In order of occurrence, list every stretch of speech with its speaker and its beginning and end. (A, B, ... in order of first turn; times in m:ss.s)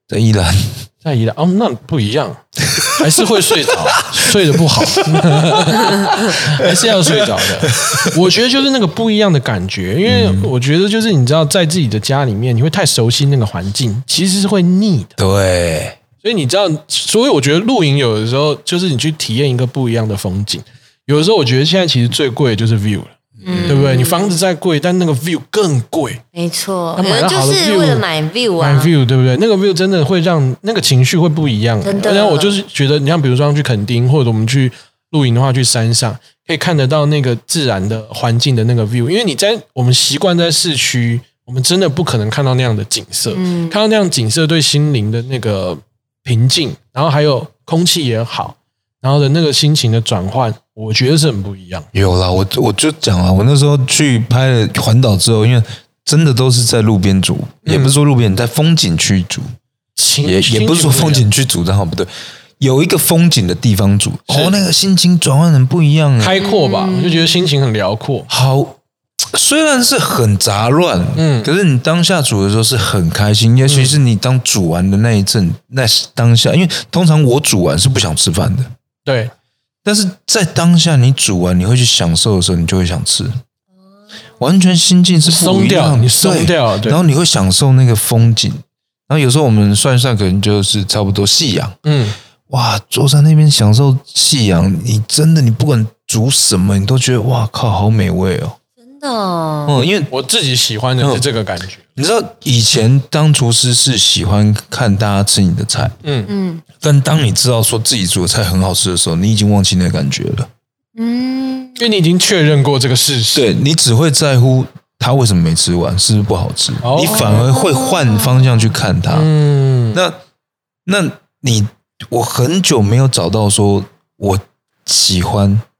0:00.1-0:00.8 A
0:01.0-0:15.2 B
0:02.7-0:03.0 A
0:04.1-0:04.4 A
0:05.0-0:08.2 A
0:10.0-0:10.5 A
0:15.2-0:16.0 A
0:16.2-0:26.2 B
0:23.4-0:24.3 C
0:23.4-0:23.8 A
0:26.3-0:28.9 C
0:27.0-0:28.0 B
0:28.6-0:51.9 B
0:31.8-0:32.6 C
0:43.3-0:43.8 C
0:51.9-0:59.5 A
0:57.6-0:57.9 B
1:00.0-1:01.3 B
1:00.2-1:02.1 A
1:02.6-1:06.4 A
1:04.3-1:04.6 B
1:06.2-1:08.3 B
1:06.4-1:07.4 C
1:08.3-1:18.7 A
1:11.2-1:11.5 B
1:13.7-1:13.9 B
1:19.0-1:19.3 B
1:19.8-1:23.3 A
1:24.4-1:31.8 A
1:25.2-1:27.0 B
1:31.8-1:32.2 B
1:32.5-1:38.6 A
1:38.8-1:39.8 C
1:39.7-1:40.1 A
1:40.1-1:41.8 B
1:41.0-1:41.2 A
1:42.0-1:46.0 A
1:46.0-1:46.3 B
1:46.3-1:46.6 C
1:46.8-1:50.5 A
1:51.0-1:51.8 C
1:51.8-1:53.4 B
1:53.3-1:59.3 A
1:56.8-1:57.5 B
1:57.1-1:58.5 C
1:59.1-2:00.0 B
2:00.8-2:05.6 A